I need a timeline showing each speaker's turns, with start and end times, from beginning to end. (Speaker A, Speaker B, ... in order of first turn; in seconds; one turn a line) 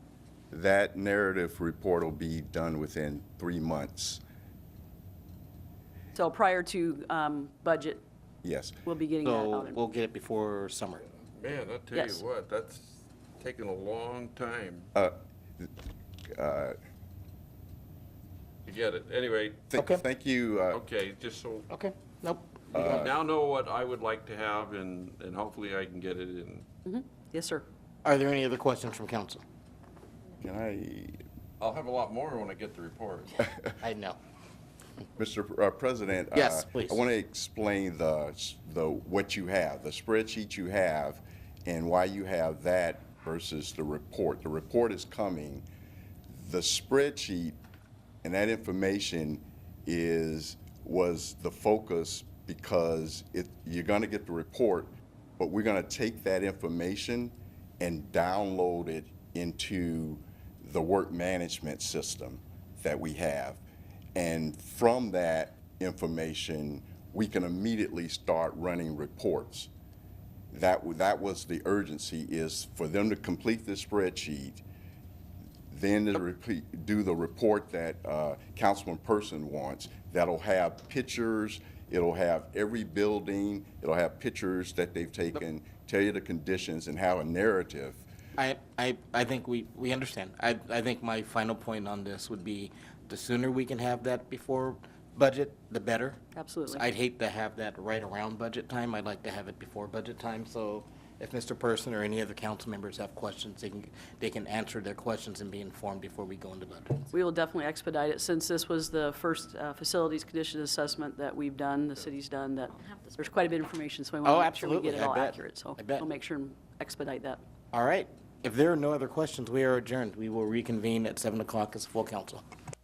Speaker A: 0.5-4.2
Speaker B: 6.2-8.0
Speaker A: 8.4-8.8
Speaker B: 8.8-9.8
Speaker C: 9.2-11.1
Speaker D: 11.3-14.9
Speaker C: 11.9-12.2
Speaker A: 14.9-15.7
Speaker A: 16.3-16.8
Speaker D: 18.7-19.6
Speaker A: 19.7-20.8
Speaker C: 19.7-20.0
Speaker D: 20.7-21.7
Speaker C: 21.7-23.1
Speaker A: 22.7-23.1
Speaker D: 22.8-26.7
Speaker B: 26.9-27.6
Speaker C: 28.0-29.4
Speaker A: 30.4-31.2
Speaker D: 31.6-33.5
Speaker C: 33.8-34.2
Speaker A: 35.2-45.6
Speaker C: 36.3-37.0
Speaker A: 46.3-47.6
Speaker A: 48.2-63.6
Speaker A: 64.2-69.7
Speaker A: 70.5-74.6
Speaker A: 75.7-88.1
Speaker C: 88.4-96.2
Speaker B: 96.3-96.9
Speaker C: 96.7-107.1
Speaker B: 107.1-117.4
Speaker C: 114.2-116.1
Speaker C: 117.7-122.4